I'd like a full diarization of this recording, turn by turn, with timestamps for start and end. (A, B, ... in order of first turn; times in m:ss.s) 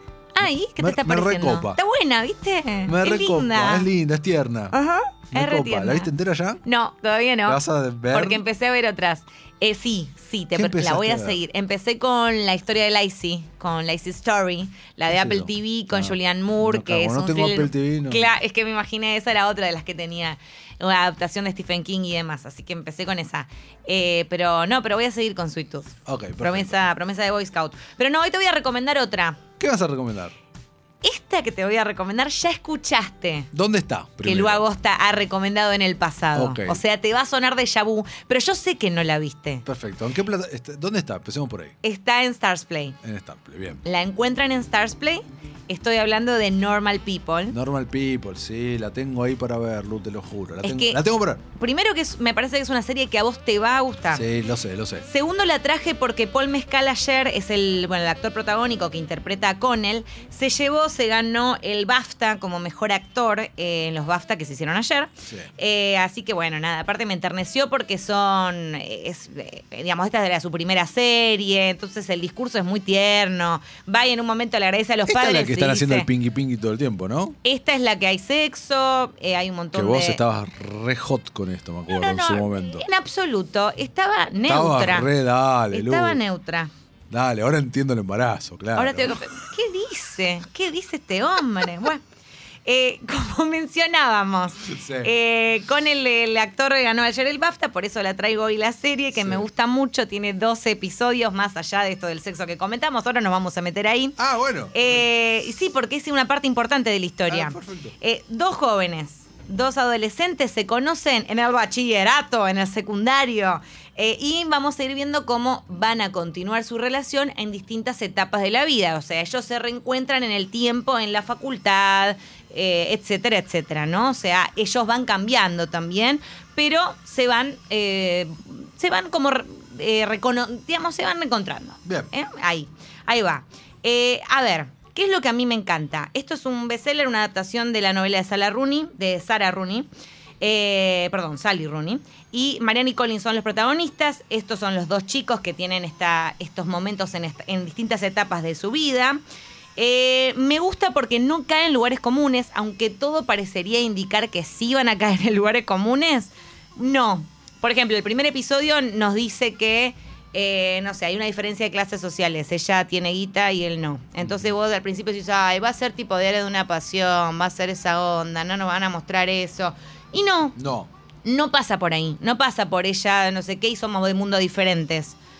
0:00.3-0:03.9 A
0:00.4-0:01.8 B
0:02.9-0:04.7 B
0:04.7-0:06.1 A
0:05.3-0:06.6 B
0:06.6-0:07.6 A
0:07.4-0:08.4 B
0:08.1-0:29.4 A
0:10.5-0:11.4 B
0:15.1-0:18.3 B
0:26.0-0:26.8 B
0:29.6-0:30.3 B
0:31.0-0:33.5 A
0:33.5-0:34.6 B
0:34.2-0:39.6 A
0:36.3-0:36.8 B
0:39.6-0:41.7 B
0:41.8-0:43.0 A
0:43.0-0:43.8 B
0:43.8-0:47.5 A
0:47.5-0:51.4 B
0:50.6-0:51.0 A
0:51.5-0:54.2 A
0:54.1-0:55.0 B
0:55.0-1:16.1 A
1:15.1-1:17.4 B
1:17.4-1:20.2 A
1:19.7-1:22.8 B
1:21.9-1:25.1 A
1:24.4-1:26.2 B
1:25.7-1:26.7 A
1:27.1-1:29.2 B
1:28.8-1:32.0 A
1:32.6-1:44.2 A
1:34.6-1:35.1 B
1:39.1-1:39.4 B
1:44.2-1:45.0 B
1:44.7-2:19.9 A
1:47.3-1:47.9 B
2:20.4-2:29.2 A
2:29.8-2:50.6 A
2:44.2-2:44.5 B
2:50.6-2:50.9 B
2:51.2-2:55.2 A